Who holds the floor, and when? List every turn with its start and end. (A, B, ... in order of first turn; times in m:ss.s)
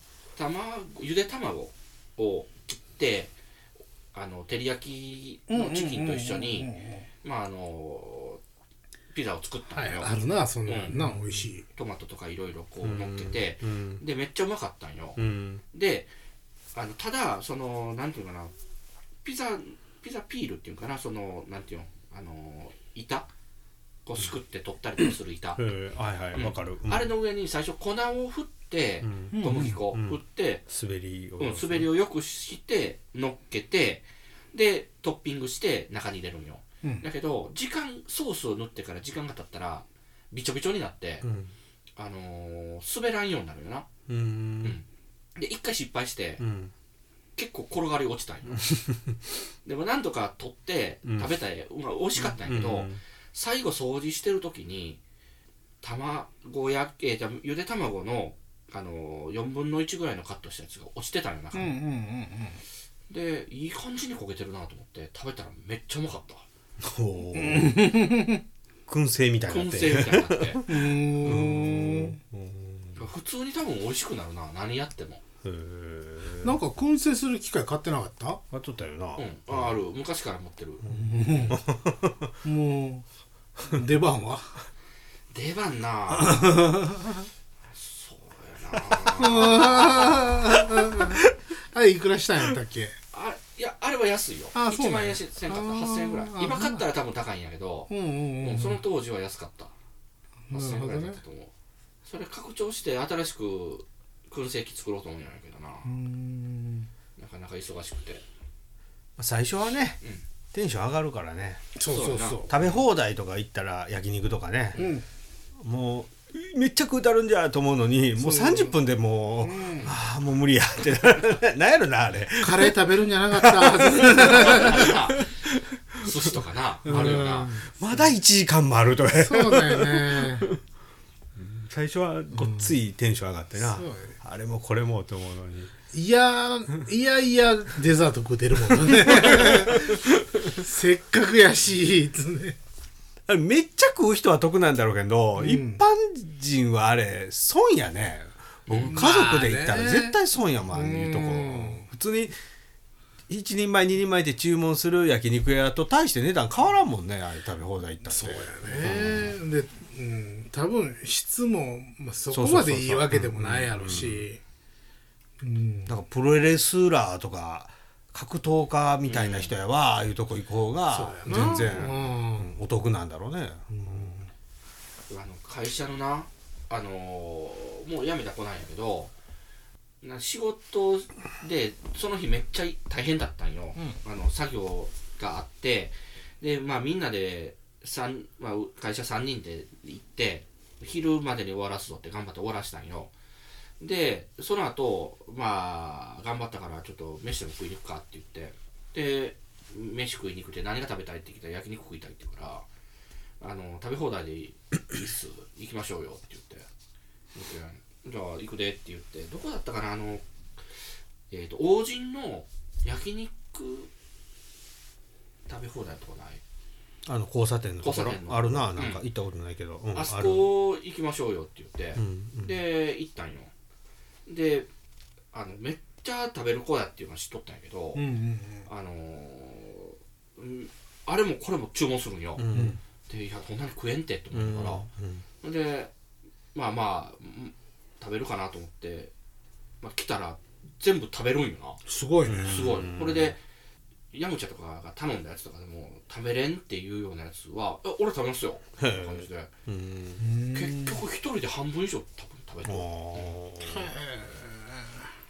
0:00.4-0:03.3 A
0:04.1-0:06.7 A
0:05.5-0:07.1 B
0:07.2-0:08.4 A
0:09.1-0:10.1 A
0:09.7-0:11.6 B
0:10.6-0:10.9 A
0:10.9-0:11.5 C
0:11.7-0:16.1 A
0:12.8-0:14.0 C
0:15.2-0:15.6 C
0:16.7-0:18.5 A
0:19.2-0:23.3 A
0:24.0-0:25.6 A
0:25.5-0:27.1 C
0:26.3-0:30.6 A
0:29.0-0:31.9 C
0:29.3-0:29.8 B
0:31.4-0:41.3 A
0:41.2-0:41.5 C
0:42.0-0:43.9 A
0:44.1-0:44.8 C
0:45.4-0:46.4 A
0:46.4-0:46.7 C
0:47.4-0:48.8 A
0:48.5-0:49.2 C
0:49.6-0:55.0 A
0:51.0-0:51.4 C
0:52.2-0:53.0 C
0:55.8-1:01.8 A
1:01.5-1:02.6 B
1:03.1-1:06.4 A
1:06.8-1:07.8 C
1:07.3-1:08.4 B
1:08.9-1:13.0 C
1:09.5-1:10.6 A
1:10.7-1:12.2 B
1:13.0-1:15.2 A
1:15.4-1:16.6 C
1:16.4-1:18.4 B
1:18.5-1:19.7 C
1:19.2-1:20.9 A
1:20.8-1:22.3 C
1:20.9-1:21.6 B
1:22.4-1:23.0 B
1:23.7-1:24.6 B
1:25.3-1:26.4 A
1:26.2-1:27.3 B
1:27.7-1:30.4 A
1:29.2-1:33.0 B
1:30.2-1:31.2 C
1:33.1-1:37.9 A
1:34.5-1:36.9 B
1:37.9-1:38.8 B
1:38.4-1:39.7 A
1:40.5-1:41.2 B
1:40.5-1:41.5 A
1:42.0-1:45.9 A
1:45.8-1:46.9 B
1:47.2-1:48.2 A
1:49.2-1:50.0 C
1:50.5-1:51.8 C
1:51.7-1:52.5 B
1:51.9-1:52.8 A
1:52.5-1:54.8 C
1:54.8-1:55.0 B
1:55.6-2:06.3 C
1:58.2-1:58.8 B
1:59.4-1:59.9 B
2:02.4-2:04.9 B
2:04.1-2:05.3 A
2:06.0-2:07.6 A
2:06.9-2:07.7 B
2:06.9-2:10.6 C
2:09.1-2:10.5 B
2:11.4-2:15.7 C
2:12.4-2:12.8 B
2:13.6-2:14.2 B
2:15.9-2:22.6 B
2:18.8-2:20.6 C
2:23.3-2:32.4 C
2:25.4-2:25.8 B
2:28.7-2:29.0 A
2:28.9-2:30.2 B
2:30.7-2:31.8 B
2:33.3-2:39.4 C
2:38.0-2:44.4 B
2:42.3-2:44.2 C
2:45.4-2:45.9 B
2:45.9-2:54.2 C
2:49.0-2:49.5 A
2:50.9-2:52.5 B
2:51.3-2:51.9 A
2:53.7-2:54.3 B
2:55.1-2:59.1 A
3:00.0-3:13.1 A
3:13.8-3:22.6 A
3:23.4-3:26.7 A
3:27.3-3:30.2 A
3:31.3-3:33.9 A
3:35.5-3:36.4 A
3:37.0-3:40.5 C
3:37.8-3:39.0 A
3:39.9-3:43.5 A
3:42.0-3:42.5 C
3:44.3-3:44.7 A
3:45.3-3:48.0 A
3:47.9-3:48.7 B
3:48.6-3:52.4 A
3:52.4-3:52.8 C
3:52.5-3:52.8 B
3:53.1-3:54.9 A
3:54.3-3:55.2 C
3:55.4-3:55.9 A
3:56.5-3:59.1 A
3:59.8-4:01.8 A
4:01.9-4:02.6 B
4:02.2-4:03.4 C
4:02.4-4:03.4 A
4:04.1-4:09.5 A
4:08.8-4:10.2 C
4:10.2-4:11.0 B
4:10.5-4:13.3 A
4:12.6-4:13.9 C
4:13.6-4:14.9 B